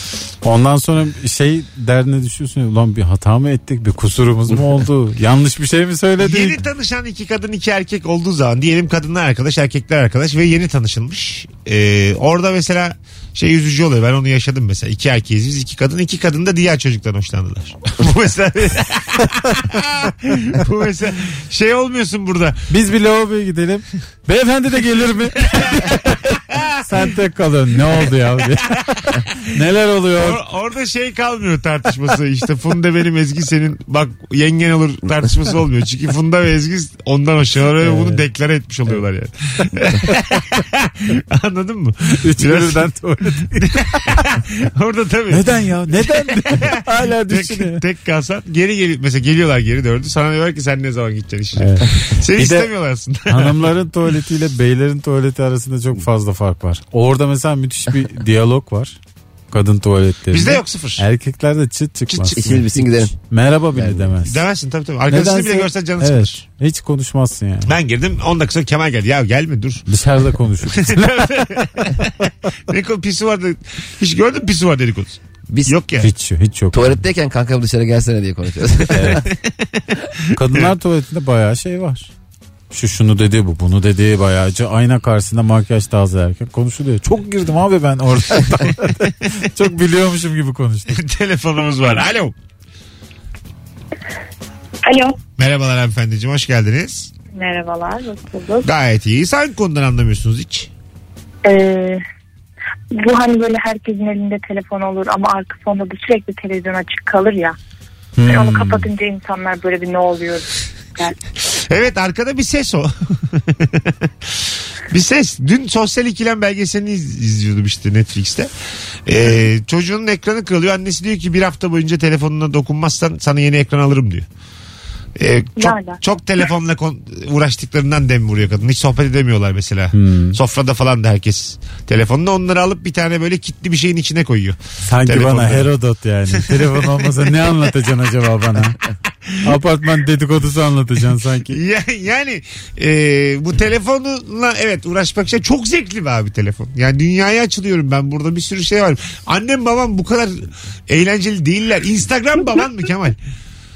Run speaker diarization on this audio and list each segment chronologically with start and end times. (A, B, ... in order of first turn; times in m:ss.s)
0:00.4-0:06.6 A
0:06.2-0:22.6 B
0:22.7-0:26.2 A
0:25.5-0:26.7 B
0:26.8-0:30.4 A
0:30.2-0:42.9 B
0:37.8-0:38.2 A
0:42.2-0:44.2 A
0:43.6-0:53.7 B
0:45.3-0:47.8 A
0:51.6-0:52.7 A
0:53.3-0:59.0 A
0:59.5-1:04.4 A
1:00.3-1:01.0 B
1:02.2-1:02.6 B
1:02.3-1:03.1 C
1:03.7-1:04.1 C
1:04.2-1:06.4 B
1:05.1-1:07.7 A
1:07.7-1:09.8 B
1:09.9-1:11.3 A
1:10.8-1:12.1 B
1:12.7-1:16.1 B
1:15.5-1:15.8 C
1:16.0-1:17.0 A
1:16.7-1:19.3 C
1:18.9-1:19.2 A
1:20.3-1:22.1 A
1:22.7-1:30.9 A
1:30.9-1:32.3 B
1:34.8-1:35.2 D
1:35.4-1:37.1 B
1:37.3-1:38.7 D
1:38.6-1:40.7 B
1:41.4-1:42.0 D
1:43.0-1:47.6 D
1:48.2-1:48.9 A
1:48.2-1:51.1 D
1:51.6-1:53.9 B
1:54.9-1:58.5 B
1:59.0-2:04.3 B
2:05.2-2:15.7 B
2:05.6-2:06.0 D
2:09.9-2:10.4 A
2:14.8-2:18.8 A
2:16.3-2:16.9 B
2:19.4-2:21.6 A
2:21.5-2:33.2 B